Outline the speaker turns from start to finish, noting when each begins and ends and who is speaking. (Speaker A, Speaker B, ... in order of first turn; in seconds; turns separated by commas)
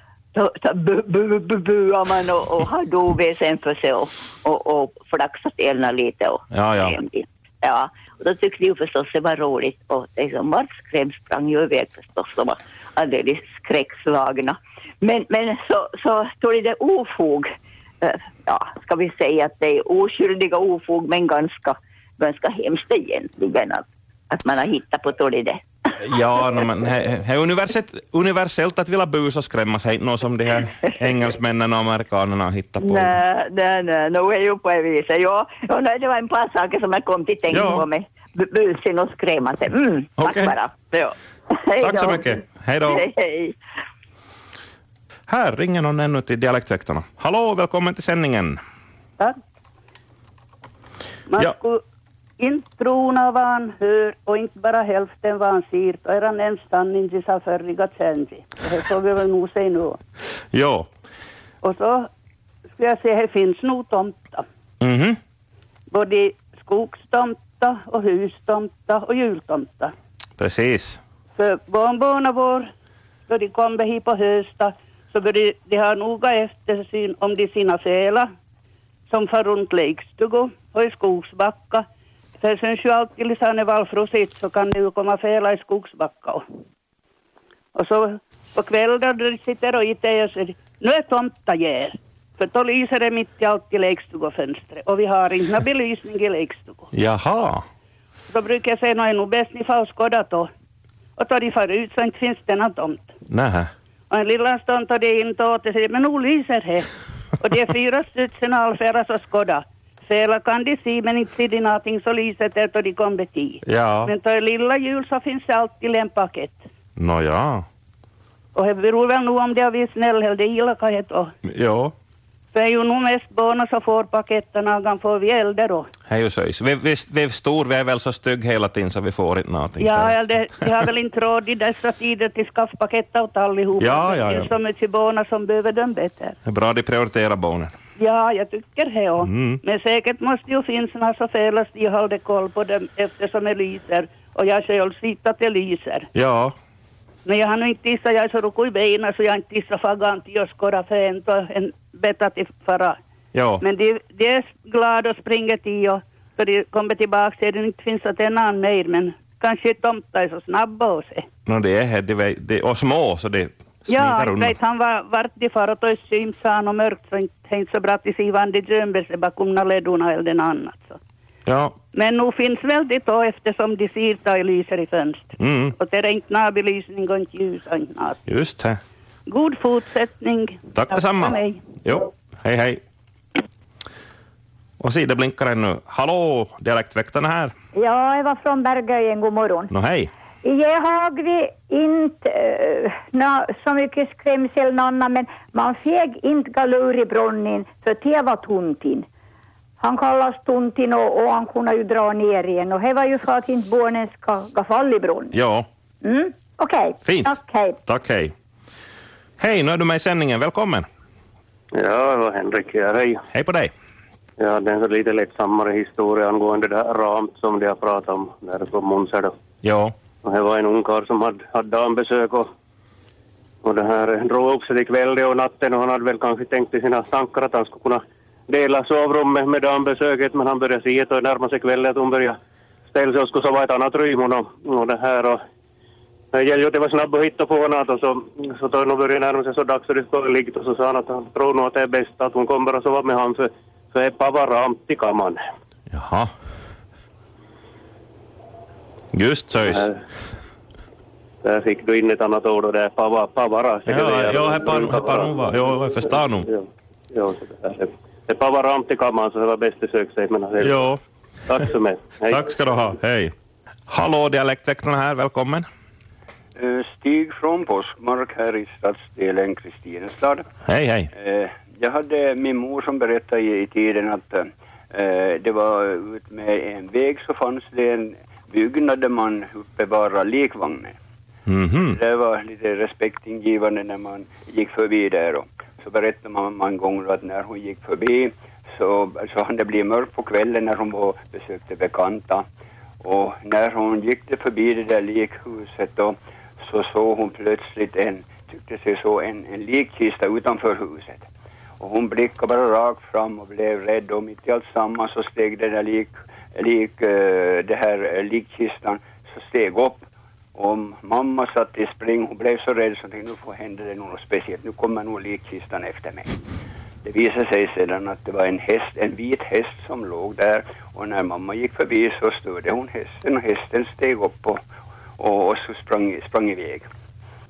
Speaker A: 0.3-17.5, Speaker B: 6.5-7.0, Speaker A: 18.0-25.6, Speaker B: 26.0-33.2, Speaker A: 32.8-43.5, Speaker B: 37.5-37.9, Speaker B: 40.2-40.6, Speaker B: 41.8-43.0, Speaker B: 45.3-48.6, Speaker C: 51.3-51.8, Speaker C: 52.4-60.0, Speaker B: 60.5-60.9, Speaker C: 61.6-62.1, Speaker C: 62.8-64.5, Speaker B: 64.8-65.2, Speaker C: 65.9-69.9, Speaker B: 70.4-71.0, Speaker C: 71.4-72.7, Speaker C: 73.3-78.3, Speaker C: 79.1-81.9, Speaker C: 82.4-86.4, Speaker C: 87.7-96.9, Speaker B: 96.9-97.6, Speaker C: 98.3-100.5, Speaker C: 101.2-103.1, Speaker B: 103.3-103.7, Speaker C: 104.1-116.7, Speaker B: 113.7-114.1, Speaker B: 117.0-117.7, Speaker C: 118.5-121.3, Speaker B: 121.5-121.9, Speaker C: 122.5-125.9, Speaker B: 126.1-130.2, Speaker C: 129.8-136.4, Speaker B: 133.8-134.5, Speaker B: 136.5-137.7, Speaker C: 138.0-146.1, Speaker B: 139.2-139.6, Speaker B: 146.1-146.5, Speaker C: 147.2-153.0, Speaker B: 153.3-153.6, Speaker C: 153.6-161.3, Speaker B: 161.5-164.6, Speaker C: 163.9-171.0, Speaker B: 171.5-171.8, Speaker C: 171.9-178.2, Speaker B: 175.4-175.8, Speaker B: 178.3-178.8, Speaker C: 179.3-181.8, Speaker B: 180.8-182.8, Speaker B: 184.8-187.5, Speaker D: 187.7-189.7, Speaker B: 189.7-190.1, Speaker D: 190.4-199.1, Speaker D: 199.8-205.3, Speaker B: 205.3-205.7, Speaker D: 206.0-207.8, Speaker B: 207.1-207.3, Speaker B: 207.9-208.3, Speaker B: 209.4-210.9, Speaker E: 211.8-213.2, Speaker B: 213.3-213.7, Speaker E: 214.4-219.3, Speaker B: 219.6-219.9, Speaker E: 220.2-222.5, Speaker E: 223.6-232.4, Speaker E: 232.9-235.4, Speaker E: 236.3-245.4, Speaker B: 245.9-246.3, Speaker B: 249.1-249.9, Speaker E: 249.7-250.0, Speaker E: 251.4-255.5, Speaker B: 253.9-256.5, Speaker E: 256.5-260.9, Speaker B: 260.6-261.0, Speaker E: 261.5-262.4, Speaker B: 262.3-263.3, Speaker B: 263.9-265.7, Speaker F: 266.6-270.4, Speaker B: 270.7-271.1, Speaker F: 271.1-281.0, Speaker B: 281.5-282.0, Speaker F: 281.9-292.4, Speaker F: 293.0-301.3, Speaker F: 301.8-310.0, Speaker F: 310.6-316.3, Speaker F: 317.0-324.6, Speaker F: 325.2-326.9